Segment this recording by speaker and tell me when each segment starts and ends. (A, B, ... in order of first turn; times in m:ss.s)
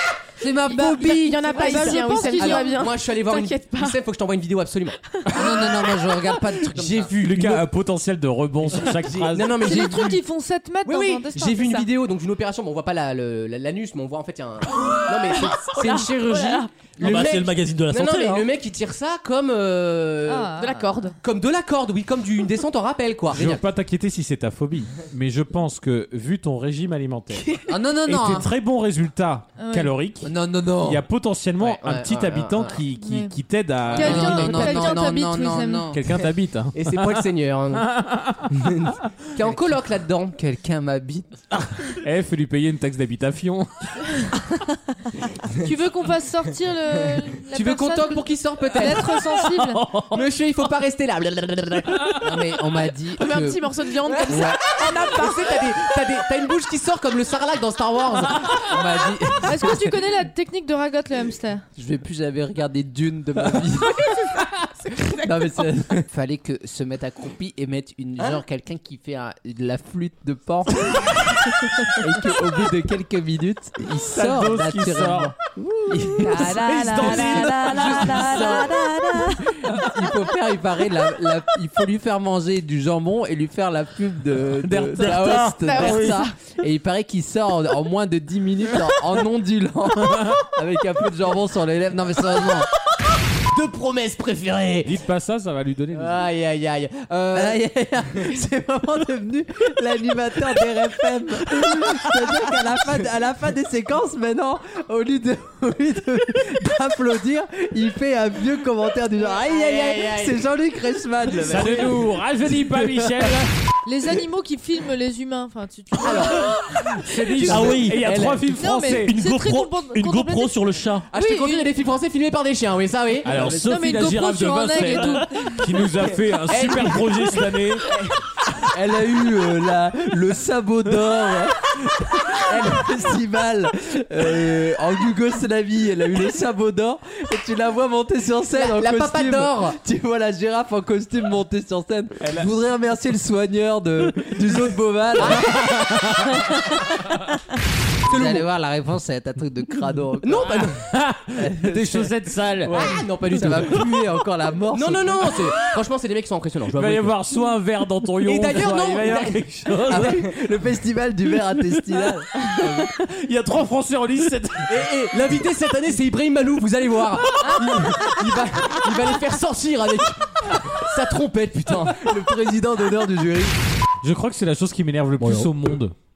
0:00.4-0:01.7 A
0:00.7-0:04.0 B
0:01.4-0:02.9 C
0:01.6-0:05.0 D
0:05.3-0:07.1 A
0:06.7-0:07.7 D
0:07.2-0:09.7 E
0:09.0-0:10.2 D
0:09.6-0:11.9 C
0:10.8-0:20.6 D
0:15.7-0:16.7 B
0:17.0-0:18.5 F
0:20.3-0:21.1 C
0:20.6-0:21.2 B
0:21.2-0:23.6 D
0:23.3-0:27.5 E
0:27.6-0:28.5 A
0:28.0-0:35.0 E
0:29.6-0:29.9 C
0:30.2-0:31.0 A
0:31.6-0:32.8 D
0:33.0-0:33.4 C
0:33.9-0:34.6 D
0:33.9-0:35.9 C
0:34.0-0:36.0 A
0:35.9-0:37.2 E
0:36.8-0:37.9 D
0:37.9-0:38.5 E
0:38.6-0:40.4 D
0:40.4-0:41.4 A
0:41.5-0:44.0 E
0:45.5-0:49.9 C
0:47.5-0:49.4 D
0:50.0-0:52.3 D
0:52.2-0:53.6 A
0:53.2-0:55.5 B
0:54.1-0:58.7 D
0:54.2-0:54.6 A
0:58.6-0:59.9 A
0:59.4-1:01.6 C
1:01.8-1:04.3 A
1:05.1-1:11.3 A
1:11.8-1:32.7 A
1:14.1-1:15.3 E
1:16.0-1:18.6 E
1:16.2-1:18.6 C
1:24.6-1:26.2 E
1:25.7-1:26.2 C
1:33.5-1:35.0 D
1:34.8-1:36.2 E
1:35.9-1:37.6 D
1:37.3-1:52.0 A
1:49.2-1:50.5 D
1:51.4-1:53.5 E
1:53.8-1:56.5 C
1:56.0-1:56.4 D
1:57.0-1:58.4 D
1:57.2-1:57.6 C
1:57.4-1:59.1 E
1:57.5-1:58.0 F
1:58.4-2:00.6 C
1:59.0-2:01.1 F
2:01.1-2:03.5 D
2:01.1-2:01.7 C
2:03.2-2:07.9 E
2:03.3-2:03.6 A
2:03.5-2:05.6 C
2:06.5-2:08.1 D
2:08.7-2:25.6 A
2:12.5-2:12.9 D
2:18.5-2:19.8 D
2:22.2-2:22.5 E
2:25.2-2:25.6 D
2:25.7-2:26.2 E
2:28.1-2:28.5 D
2:28.1-2:30.8 A
2:30.2-2:30.8 D
2:30.9-2:33.0 E
2:31.4-2:32.1 A
2:32.6-2:33.9 D
2:32.7-2:35.4 A
2:34.7-2:37.2 D
2:36.8-2:40.3 E
2:38.2-2:40.0 D
2:39.9-2:42.3 A
2:42.9-2:44.7 E
2:44.7-2:52.2 D
2:52.0-2:53.6 A
2:54.0-2:56.0 E